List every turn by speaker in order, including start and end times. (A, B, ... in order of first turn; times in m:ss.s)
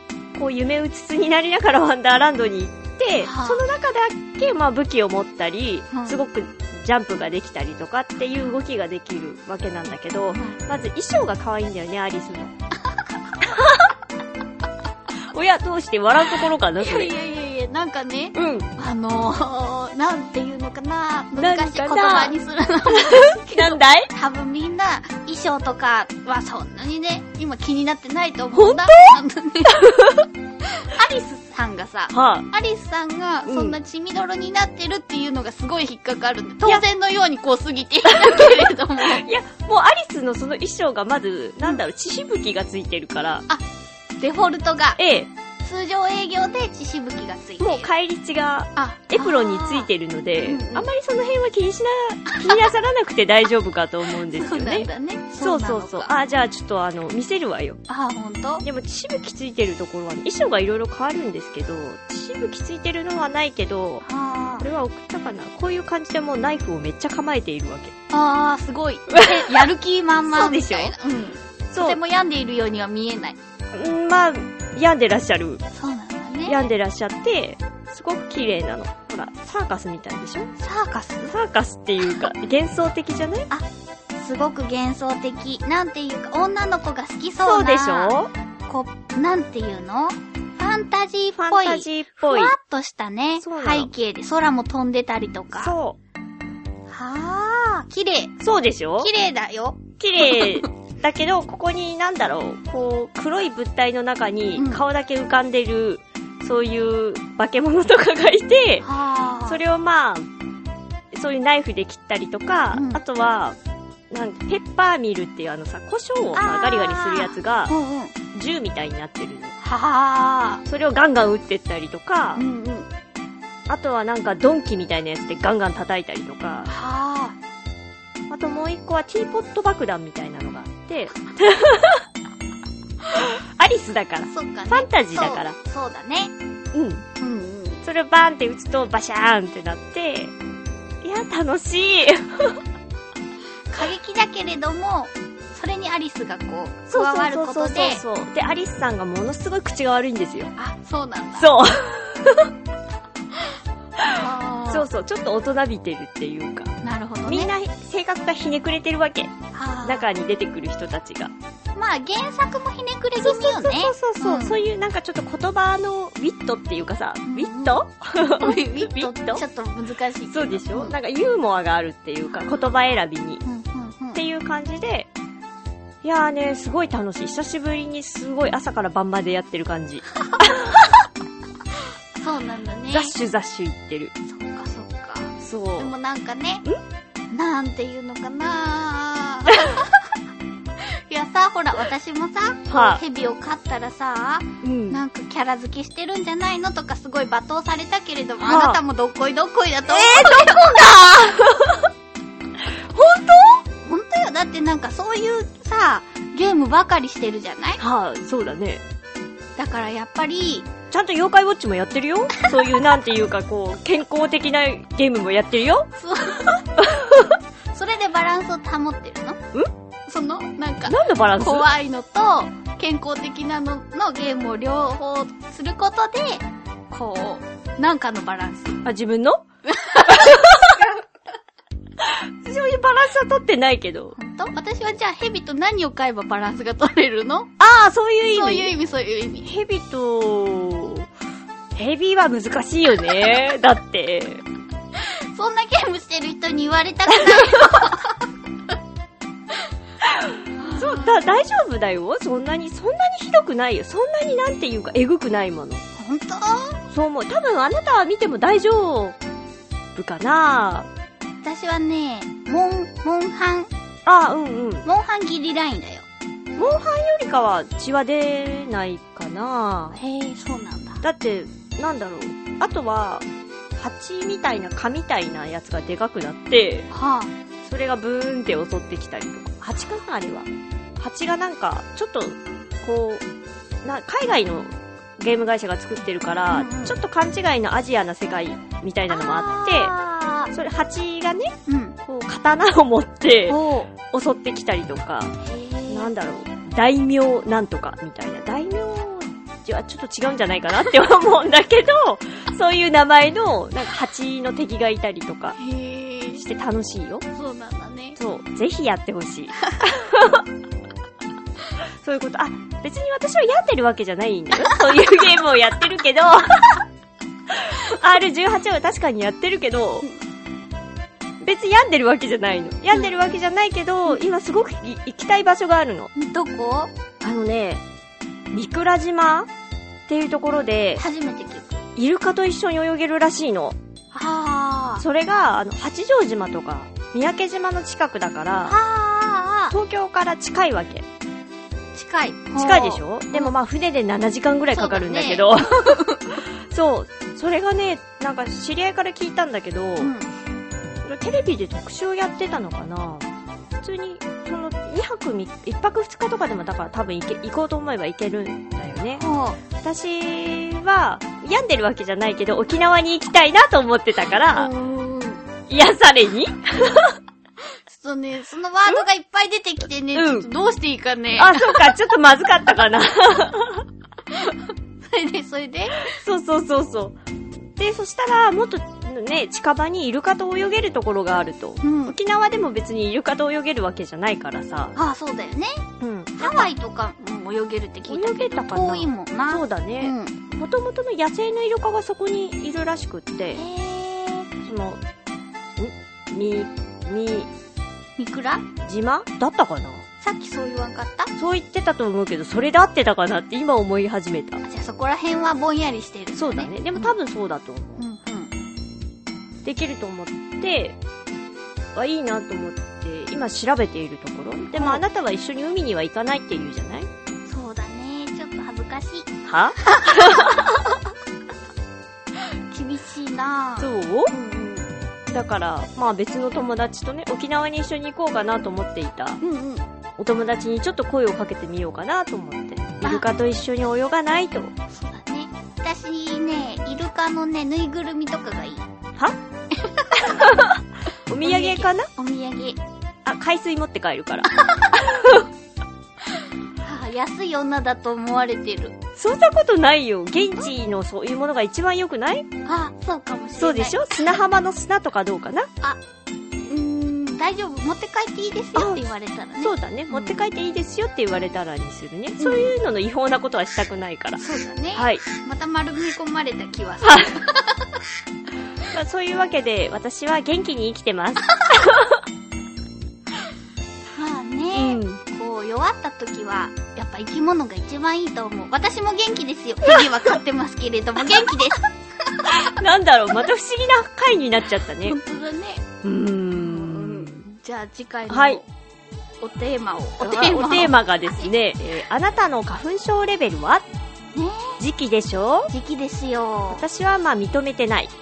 0:00.3-0:12.5 A
0:03.2-0:03.6 B
0:05.9-0:06.2 B
0:10.3-0:10.6 B
0:13.4-0:13.9 A
0:15.3-0:17.1 A
0:16.8-0:30.1 B
0:18.3-0:18.7 A
0:21.4-0:22.3 A
0:22.9-0:24.1 A
0:28.5-0:29.2 A
0:29.8-0:30.1 A
0:30.7-0:39.2 B
0:32.1-0:32.5 A
0:33.4-0:33.7 A
0:38.1-0:43.4 A
0:44.2-0:45.0 B
0:45.0-0:45.3 A
0:45.6-0:47.9 B
0:47.6-0:54.9 A
0:48.8-0:49.9 B
0:50.4-0:50.9 B
0:52.3-0:52.6 B
0:54.3-0:56.1 B
0:55.4-0:57.8 A
0:57.9-0:58.6 B
0:58.6-1:04.0 A
1:04.0-1:04.7 B
1:04.6-1:07.9 A
1:08.1-1:13.4 B
1:09.2-1:09.7 A
1:10.2-1:10.9 A
1:11.7-1:12.0 A
1:13.7-1:15.6 A
1:15.7-1:16.7 B
1:16.4-1:20.5 A
1:20.6-1:21.3 B
1:21.3-1:23.5 A
1:23.5-1:28.2 B
1:27.4-1:28.3 A
1:28.7-1:35.8 B
1:31.4-1:32.5 A
1:33.4-1:33.9 A
1:35.6-1:36.0 A
1:36.9-1:38.3 B
1:38.4-1:39.1 A
1:39.0-1:40.6 B
1:40.0-1:48.9 A
1:44.6-1:44.8 B
1:48.8-1:49.6 B
1:49.4-1:50.3 A
1:51.1-1:53.6 A
1:52.7-1:53.0 B
1:54.1-1:57.7 A
1:56.3-1:58.1 B
1:58.3-1:59.5 A
1:59.6-2:00.6 B
2:00.6-2:02.4 A
2:02.3-2:02.9 B
2:03.7-2:06.7 A
2:06.7-2:07.4 B
2:08.3-2:12.0 A
2:13.1-2:15.6 A
2:14.3-2:16.3 B
2:16.7-2:17.0 A
2:17.2-2:17.8 B
2:17.8-2:20.3 A
2:21.0-2:22.6 A
2:23.7-2:28.0 B
2:26.9-2:30.5 A
2:30.6-2:31.5 B
2:31.4-2:32.5 A
2:34.1-2:34.9 B
2:34.7-2:36.8 A
2:36.8-2:37.5 B
2:37.3-2:41.3 A
2:39.5-2:40.1 B
2:41.7-2:44.6 B
2:43.2-2:49.4 A
2:47.2-2:51.0 B
2:50.3-2:53.4 A
2:53.4-2:54.2 B
2:54.1-2:55.1 A
2:56.0-3:00.8 A
3:02.2-3:03.1 B
3:02.9-3:04.1 A
3:04.2-3:06.6 B
3:05.4-3:05.9 A
3:07.3-3:10.1 B
3:10.8-3:21.4 B
3:12.7-3:13.0 A
3:14.6-3:15.0 A
3:18.4-3:18.8 A
3:19.9-3:21.8 A
3:22.9-3:23.6 A
3:23.7-3:27.8 B
3:27.8-3:28.8 A
3:29.6-3:30.7 B
3:30.9-3:35.9 A
3:36.0-3:36.6 B
3:36.8-3:37.4 A
3:37.7-3:39.4 B
3:40.1-3:48.8 B
3:40.9-3:41.7 A
3:48.8-3:49.4 A
3:49.6-3:50.8 B
3:50.1-3:50.8 A
3:52.0-3:54.2 A
3:54.2-3:57.5 B
3:57.6-3:58.7 A
3:58.3-3:59.5 B
3:59.4-4:01.1 A
4:01.7-4:04.4 A
4:05.0-4:08.2 B
4:07.1-4:07.9 A
4:10.5-4:11.4 B
4:10.8-4:15.8 A
4:16.0-4:16.8 B
4:16.9-4:19.2 A
4:20.0-4:20.9 A
4:21.4-4:23.7 B
4:24.0-4:24.8 A
4:24.8-4:26.0 B
4:26.6-4:30.0 A
4:29.9-4:31.0 B
4:31.0-4:33.2 A
4:33.8-4:36.9 A
4:36.9-4:37.3 B
4:37.6-4:43.2 A
4:43.8-4:49.9 A
4:46.5-4:46.9 B
4:49.1-4:50.5 B
4:50.5-4:51.5 A
4:51.7-4:52.0 B
4:52.0-4:55.3 A
4:53.5-4:53.9 B
4:55.4-4:56.1 B
4:55.9-5:05.6 A
5:05.6-5:06.4 B
5:06.3-5:07.2 A
5:07.3-5:08.2 B
5:08.2-5:10.4 A
5:12.0-5:16.8 A
5:17.5-5:20.1 A
5:21.4-5:26.1 A
5:26.1-5:26.9 B
5:27.2-5:27.8 A
5:28.5-5:29.5 A
5:30.1-5:31.0 A
5:31.0-5:31.8 B
5:32.0-5:33.8 A
5:34.1-5:35.0 B
5:35.0-5:38.7 A
5:38.6-5:39.8 B
5:39.7-5:41.0 A
5:41.9-5:43.5 B
5:42.6-5:50.1 A
5:44.7-5:46.4 B
5:50.0-5:50.3 B
5:51.0-5:53.3 A
5:53.8-5:59.2 A
5:59.2-5:59.6 B
5:59.8-6:04.7 A
6:04.5-6:05.4 B
6:05.7-6:07.2 A
6:07.9-6:11.9 B
6:10.1-6:10.5 A
6:11.4-6:13.8 A
6:14.3-6:16.2 B
6:16.0-6:17.2 A
6:17.8-6:24.9 A
6:21.8-6:22.2 B
6:24.9-6:25.8 B
6:26.0-6:26.7 A
6:26.4-6:30.3 B
6:28.1-6:33.6 A
6:33.5-6:34.5 B
6:34.6-6:35.0 A
6:35.8-6:37.5 A
6:38.2-6:38.6 B
6:38.8-6:40.0 A
6:40.2-6:41.3 B
6:41.4-6:44.6 A
6:44.6-6:47.1 B
6:46.4-6:48.0 A
6:48.0-6:48.5 B
6:49.6-6:51.0 A
6:51.9-6:57.1 A
6:54.7-6:55.0 B
6:57.5-7:01.0 B
6:59.4-7:00.8 A
7:02.7-7:04.9 B
7:03.8-7:04.3 A
7:05.3-7:09.4 A
7:09.4-7:09.8 B
7:10.2-7:14.7 A
7:14.9-7:18.9 B
7:19.7-7:20.6 B
7:20.4-7:22.1 A
7:21.4-7:22.8 B
7:23.2-7:25.5 A
7:24.6-7:25.0 B
7:26.8-7:29.0 B
7:29.2-7:32.4 A
7:30.4-7:30.6 B
7:32.6-7:34.0 B
7:33.6-7:35.7 A
7:36.7-7:40.5 B
7:38.7-7:44.4 A
7:42.4-7:42.7 B
7:44.4-7:48.0 B
7:44.9-7:45.2 A
7:47.0-7:47.3 A
7:48.9-7:52.2 A
7:54.1-8:02.4 B
7:54.7-7:55.2 A
8:02.5-8:05.2 A
8:05.0-8:05.8 B
8:06.0-8:07.4 A
8:06.5-8:08.7 B
8:08.3-8:08.6 A
8:09.4-8:11.5 B
8:10.2-8:13.8 A
8:14.3-8:14.8 B
8:14.8-8:15.7 A
8:15.7-8:16.8 B
8:16.7-8:18.1 A